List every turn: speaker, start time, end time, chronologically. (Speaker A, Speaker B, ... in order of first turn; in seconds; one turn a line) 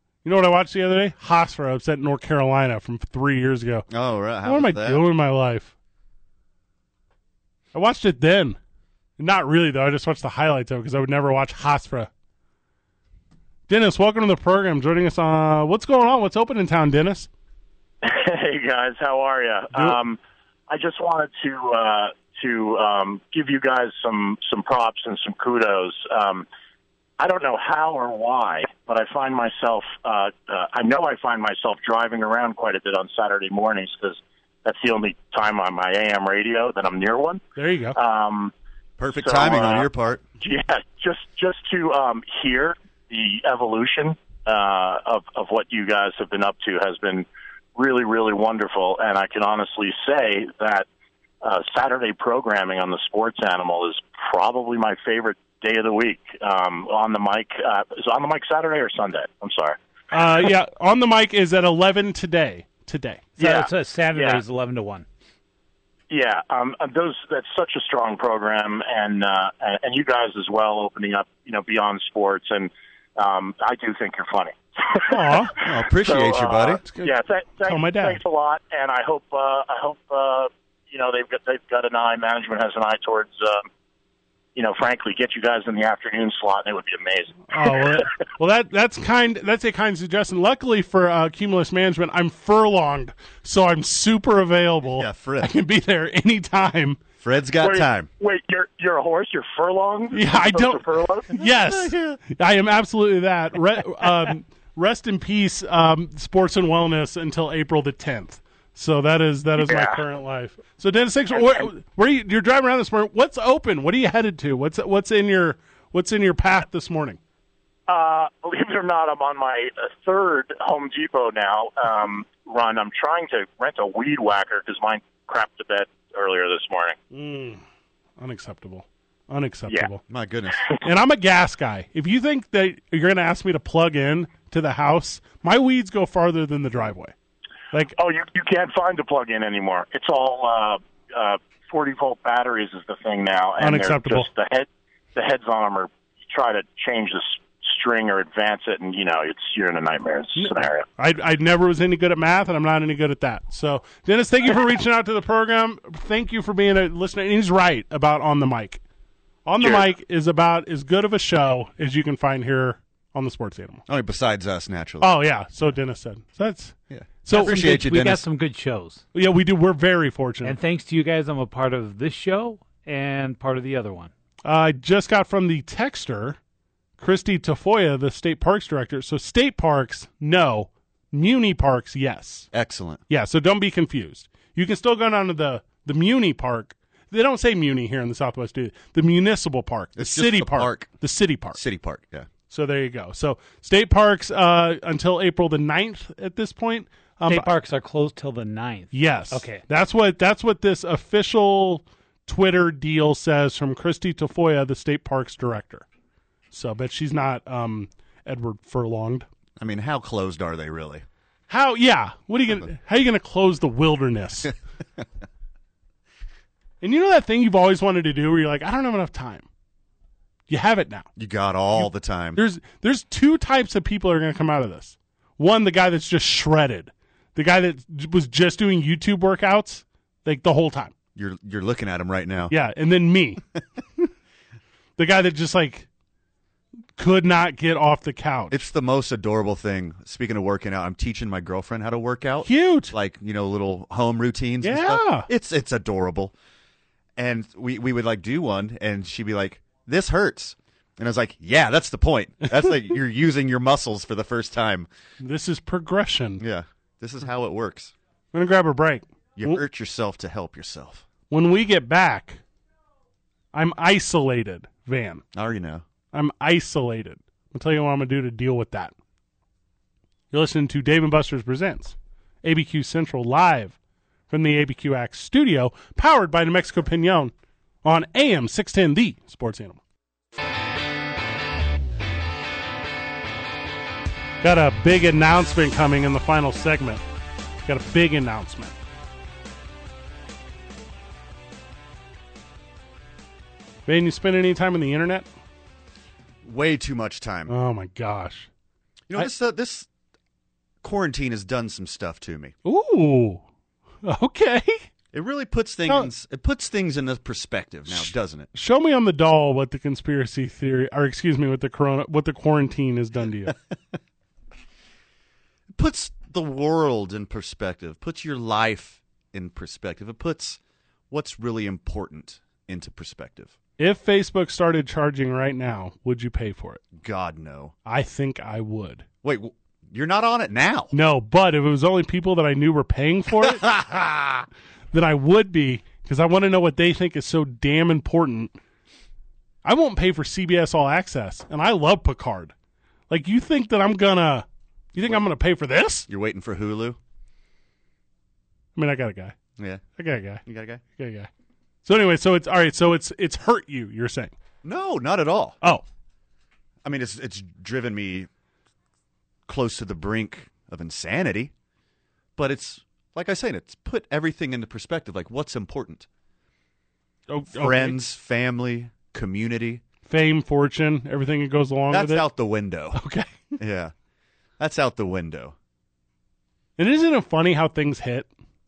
Speaker A: 0.2-3.9
Speaker B: 3.9-5.0
Speaker A: 4.4-5.7
Speaker A: 7.7-8.6
Speaker A: 9.2-12.1
Speaker A: 13.7-17.3
Speaker C: 18.0-20.2
Speaker A: 19.7-20.0
Speaker C: 20.7-26.4
Speaker C: 27.2-37.4
Speaker A: 37.6-38.0
Speaker C: 37.9-38.5
Speaker B: 39.0-40.2
Speaker C: 39.1-39.9
Speaker C: 40.4-50.9
Speaker C: 51.4-59.8
Speaker A: 60.1-63.2
Speaker C: 63.4-64.4
Speaker D: 63.4-65.0
Speaker C: 66.1-83.7
Speaker A: 75.1-75.5
Speaker B: 75.6-76.8
Speaker A: 76.8-78.2
Speaker C: 84.5-88.1
Speaker A: 87.5-97.0
Speaker B: 94.9-95.5
Speaker B: 97.2-98.1
Speaker C: 97.6-101.4
Speaker A: 100.1-117.2
Speaker B: 101.4-102.2
Speaker C: 109.6-110.0
Speaker C: 111.3-111.7
Speaker C: 117.9-127.0
Speaker A: 127.1-127.6
Speaker A: 128.2-130.0
Speaker B: 130.1-130.6
Speaker A: 130.8-137.1
Speaker C: 138.0-150.8
Speaker A: 143.6-144.3
Speaker A: 150.3-158.8
Speaker A: 159.4-163.8
Speaker C: 159.6-159.9
Speaker B: 163.9-165.2
Speaker A: 165.0-167.6
Speaker B: 166.9-168.2
Speaker D: 167.3-169.0
Speaker A: 169.1-170.6
Speaker D: 170.4-174.1
Speaker A: 174.4-176.4
Speaker A: 177.0-182.5
Speaker B: 182.5-183.0
Speaker A: 183.1-191.6
Speaker B: 190.0-190.9
Speaker B: 191.5-192.3
Speaker A: 192.5-197.5
Speaker D: 197.3-199.6
Speaker A: 198.9-205.8
Speaker A: 206.5-209.2
Speaker B: 209.6-211.0
Speaker A: 211.5-214.5
Speaker A: 216.8-219.4
Speaker A: 220.5-221.1
Speaker B: 221.2-222.4
Speaker A: 221.8-230.9
Speaker B: 231.1-232.5
Speaker A: 232.5-233.4
Speaker A: 235.0-235.9
Speaker A: 237.0-238.6
Speaker B: 238.5-246.3
Speaker A: 242.4-242.9
Speaker A: 244.6-245.3
Speaker B: 247.2-254.9
Speaker A: 255.2-256.4
Speaker B: 256.4-257.9
Speaker A: 258.3-259.6
Speaker B: 259.4-261.0
Speaker A: 261.3-262.4
Speaker A: 263.5-265.2
Speaker B: 265.3-265.8
Speaker A: 266.1-268.9
Speaker A: 270.3-273.7
Speaker A: 274.3-277.3
Speaker A: 277.8-279.8
Speaker A: 284.4-287.0
Speaker A: 287.6-288.8
Speaker A: 293.9-295.3
Speaker B: 296.4-297.5
Speaker A: 297.5-298.5
Speaker B: 299.1-299.9
Speaker B: 300.8-302.5
Speaker A: 302.6-303.4
Speaker A: 304.0-304.8
Speaker B: 305.1-308.5
Speaker A: 307.9-313.5
Speaker B: 315.7-320.6
Speaker B: 321.1-323.5
Speaker A: 323.8-326.8
Speaker B: 327.0-327.7
Speaker A: 327.9-329.0
Speaker B: 329.2-330.9
Speaker A: 330.9-333.7
Speaker B: 333.4-334.4
Speaker A: 334.9-338.5
Speaker A: 339.6-342.5
Speaker A: 343.1-346.1
Speaker B: 346.1-347.0
Speaker A: 348.8-349.4
Speaker B: 349.6-349.8
Speaker A: 350.0-350.4
Speaker B: 350.4-350.8
Speaker A: 350.9-351.3
Speaker A: 351.8-354.3
Speaker B: 354.6-355.6
Speaker B: 356.8-358.3
Speaker B: 359.5-361.5
Speaker B: 362.4-366.1
Speaker A: 367.3-368.0
Speaker B: 367.5-369.8
Speaker A: 370.1-372.2
Speaker B: 371.9-373.0
Speaker A: 372.9-373.5
Speaker B: 373.6-373.9
Speaker B: 374.6-375.5
Speaker A: 376.8-378.3